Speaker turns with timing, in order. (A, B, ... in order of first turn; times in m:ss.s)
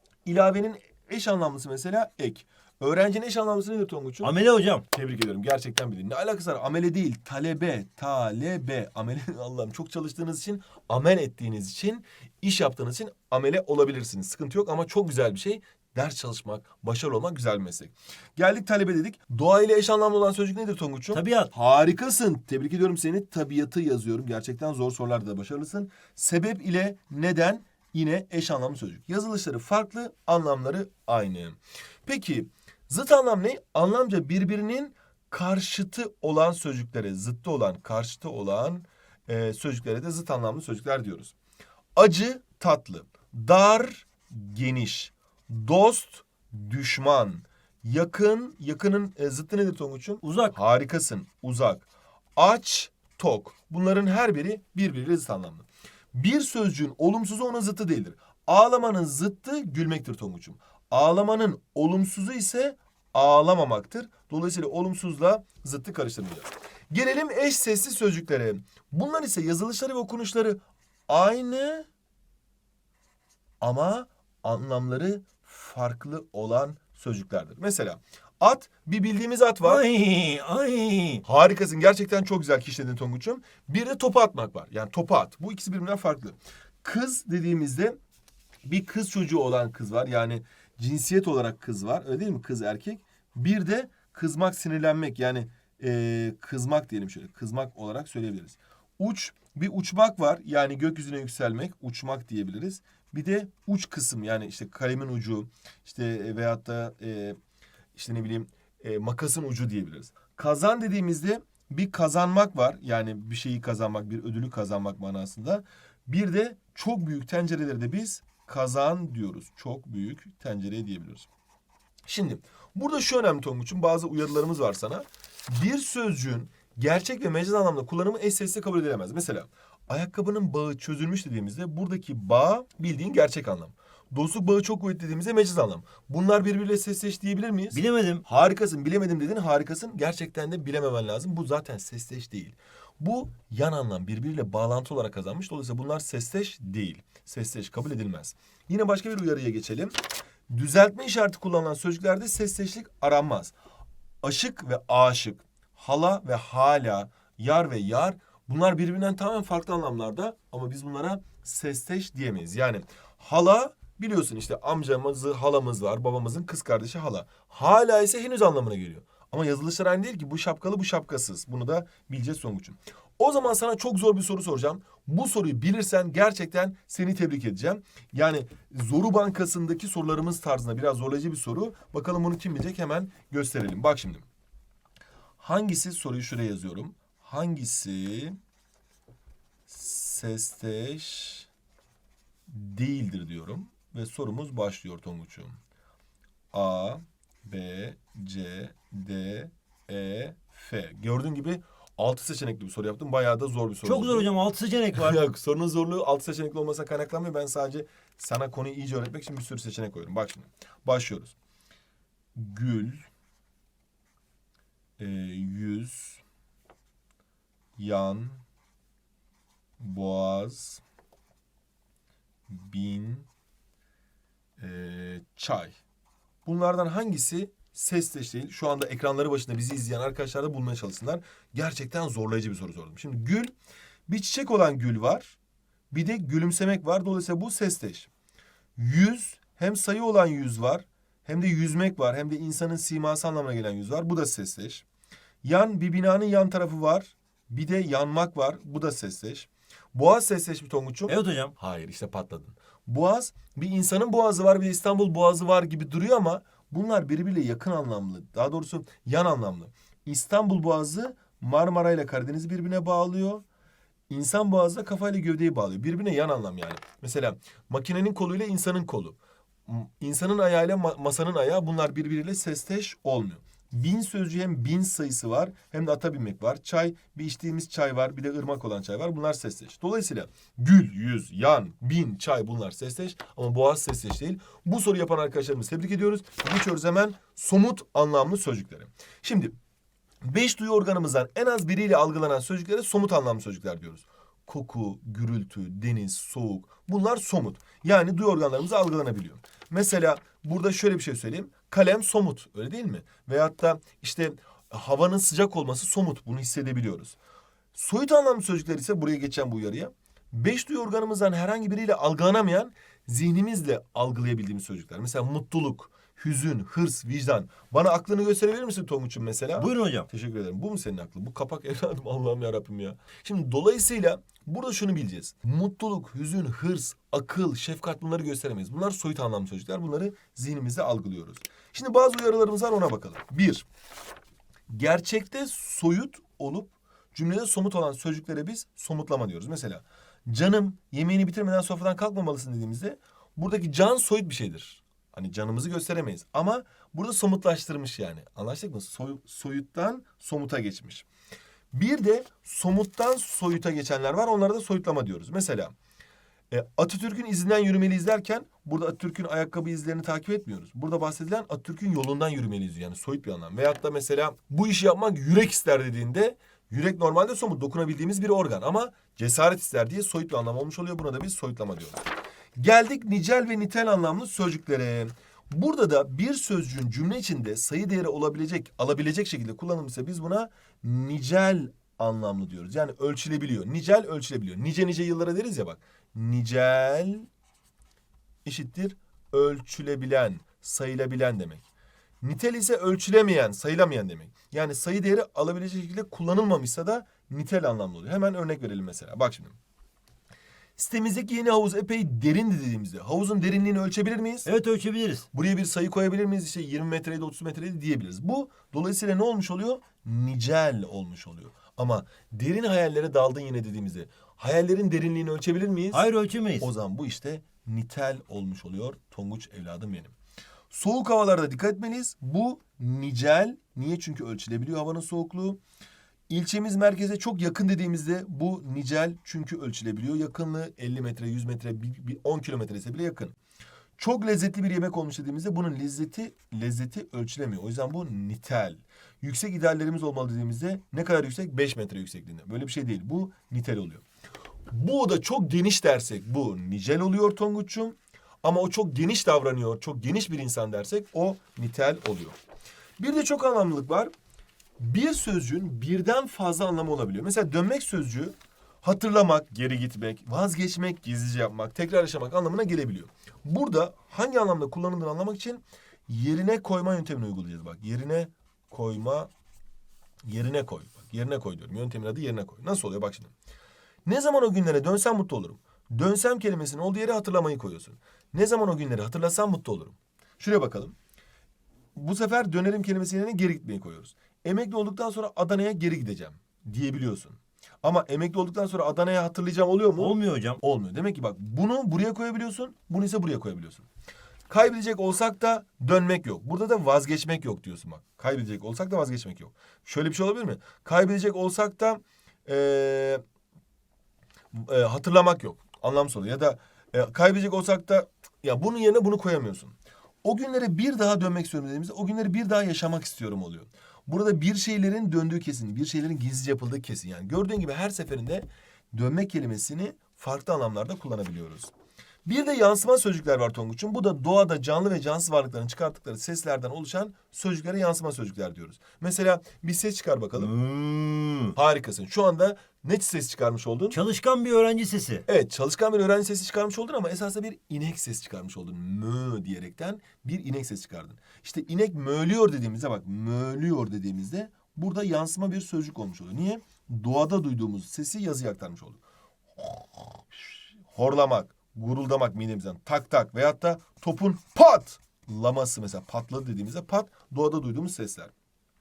0:00.2-0:04.3 A
0:04.2-0:04.8 B
0:04.9-0:41.3 A
0:21.1-0:21.5 B
0:42.0-1:11.9 A
0:50.2-0:50.6 B
1:13.6-1:19.8 A
1:19.6-1:21.2 B
1:21.2-1:28.0 A
1:28.6-1:47.4 A
1:48.0-2:01.3 A
2:02.1-2:29.9 A
2:17.7-2:18.2 B
2:30.5-2:33.5 A
2:34.2-3:04.3 A
3:05.4-3:08.4 A
3:09.7-3:11.5 A
3:12.5-3:15.6 A
3:16.5-3:24.3 A
3:23.8-3:25.2 B
3:25.0-3:31.4 A
3:32.4-3:33.1 A
3:35.0-3:36.2 A
3:37.8-3:38.4 A
3:39.8-3:40.8 A
3:42.5-3:43.3 A
3:44.6-3:45.8 A
3:46.4-3:53.5 A
3:54.1-3:55.4 A
3:55.9-3:58.1 A
3:58.8-4:04.8 A
4:05.4-4:23.4 A
4:11.1-4:11.5 B
4:24.1-4:49.5 A
4:50.2-5:07.2 A
5:07.7-5:33.7 A
5:19.6-5:20.1 B
5:34.7-5:51.1 A
5:51.7-5:55.8 A
5:56.5-6:12.0 A
6:12.6-6:27.3 A
6:28.4-6:31.6 A
6:32.2-6:39.6 A
6:40.8-6:44.5 A
6:44.5-6:45.3 B
6:45.3-6:56.1 A
6:55.9-6:56.7 B
6:56.6-7:00.1 A
7:00.7-7:05.6 A
7:06.3-7:13.4 A
7:14.0-7:24.0 A
7:24.7-7:32.4 A
7:33.0-7:34.1 A
7:34.8-7:49.3 A
7:50.2-7:53.3 A
7:54.0-8:01.0 A
8:02.0-8:13.9 A
8:10.0-8:10.6 B
8:14.5-8:23.2 A
8:24.5-8:41.7 A
8:42.2-8:50.5 A
8:50.4-8:51.6 B
8:51.6-8:54.0 A
8:53.9-8:55.2 B
8:55.3-9:09.0 A
9:09.6-9:18.3 A